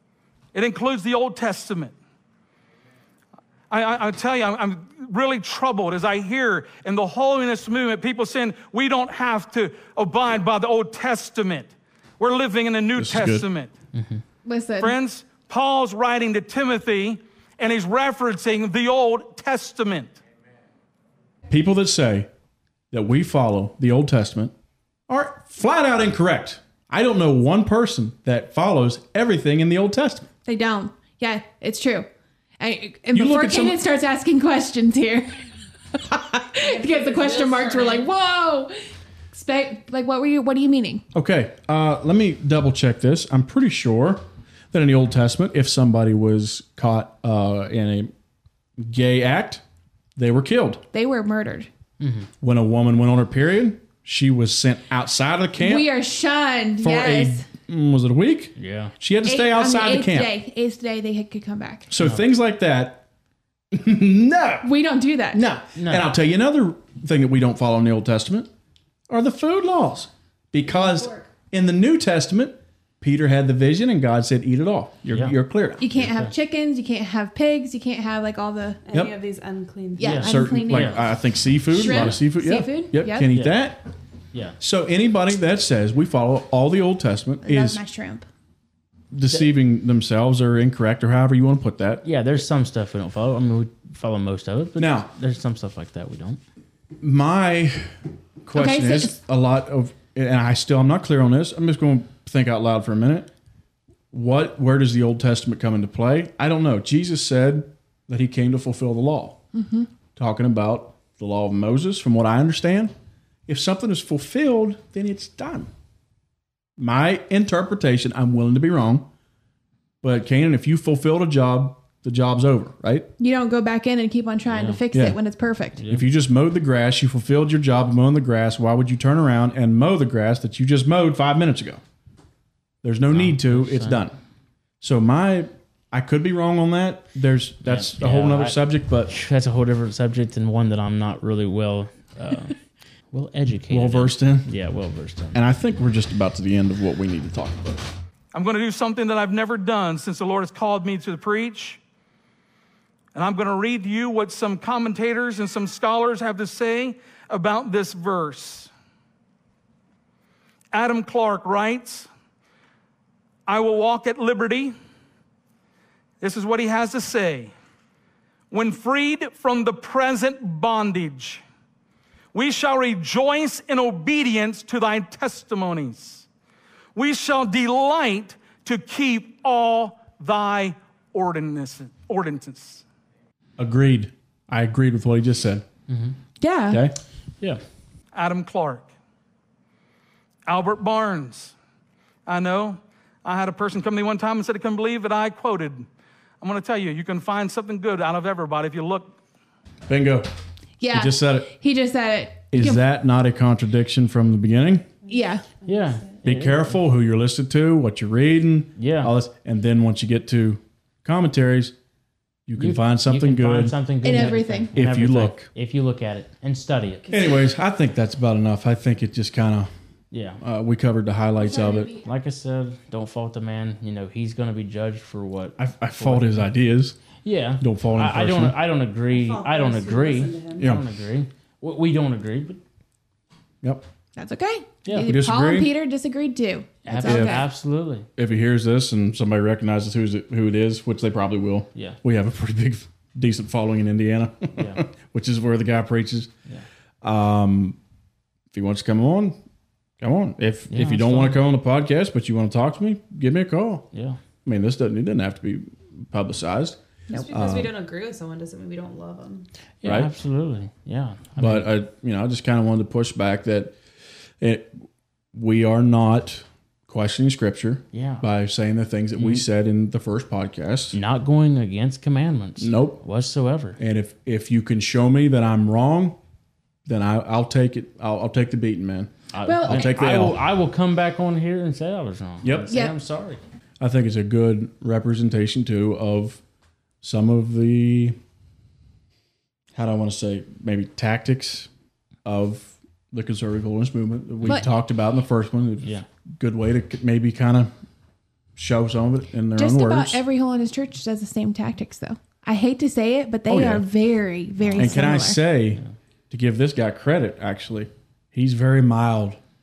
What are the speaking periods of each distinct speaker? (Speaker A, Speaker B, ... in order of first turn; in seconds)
Speaker A: 0.5-1.9, 3.7-13.7, 14.8-20.2, 148.3-151.8, 153.1-158.7, 160.7-162.1, 163.5-164.7, 166.2-167.5, 168.5-171.4, 172.3-176.2, 176.9-182.8, 188.1-188.9, 190.5-191.5, 192.2-195.9, 196.4-199.1
Speaker B: 12.9-13.4, 21.5-22.3, 22.9-24.5, 25.1-30.3, 33.1-33.8, 41.1-48.1, 48.8-49.6, 50.1-50.8, 52.4-55.9, 56.8-60.3, 61.9-63.0, 63.7-64.7, 65.3-68.5, 69.1-75.8, 80.2-83.8, 84.6-87.8, 89.1-92.0, 94.8-95.1, 97.0-103.3, 104.1-109.4, 110.2-112.9, 113.5-115.7, 116.8-119.1, 120.0-123.1, 124.9-125.2, 125.9-131.8, 132.8-134.1, 134.8-139.1, 143.7-144.5, 145.3-147.8, 183.6-185.7, 186.7-186.9, 199.9-200.3, 200.9-201.5, 202.5-204.9, 206.2-211.7, 212.5-213.8, 214.7-215.5, 217.1-219.7, 220.4-221.9, 225.6-227.0, 227.6-228.6, 230.6-230.8, 234.9-235.7, 237.0-237.4, 238.2-246.3, 247.0-247.8, 248.5-249.4, 250.0-253.9, 254.4-256.8, 257.3-257.7, 259.8-260.1, 261.4-263.8, 264.4-264.8, 265.3-271.0, 272.6-273.0, 273.8-276.2, 276.9-279.1, 279.6-280.4, 282.4-282.7, 283.8-286.4, 287.0-288.2, 289.7-291.7, 292.2-297.7, 298.6-300.2, 303.5-303.8, 304.8-309.4
Speaker C: 13.9-14.2, 52.0-52.3, 58.5-58.9, 65.8-66.1, 75.1-75.3, 75.9-76.3, 80.0-81.0, 81.8-82.2, 83.3-83.6, 92.0-96.4, 124.5-124.8, 125.8-126.0, 133.1-134.1, 137.6-142.6, 143.1-145.4, 185.9-186.2, 205.7-206.8, 208.8-209.1, 212.6-217.1, 220.1-220.4, 222.0-226.5, 227.2-232.6, 234.8-235.1, 236.8-238.1, 244.6-244.8, 250.7-251.4, 253.9-254.2, 259.8-261.7, 267.9-268.2, 269.1-269.4, 270.9-273.8, 279.3-283.4, 304.6-305.0
Speaker D: 14.4-14.9, 30.4-38.8, 39.3-41.0, 50.9-51.7, 55.6-57.5, 59.2-61.9, 64.6-65.4, 75.8-78.8, 80.0-81.0, 81.7-83.3, 87.4-88.3, 98.5-99.2, 109.5-109.9, 123.2-125.8, 186.4-186.8, 200.8-202.8, 205.1-205.4, 214.0-214.7, 221.4-222.0, 234.2-237.4, 279.4-280.0, 282.7-282.9, 299.5-305.4
Speaker E: 36.6-38.1, 70.6-71.3, 78.8-80.9, 205.1-206.2, 229.1-230.7, 257.1-259.5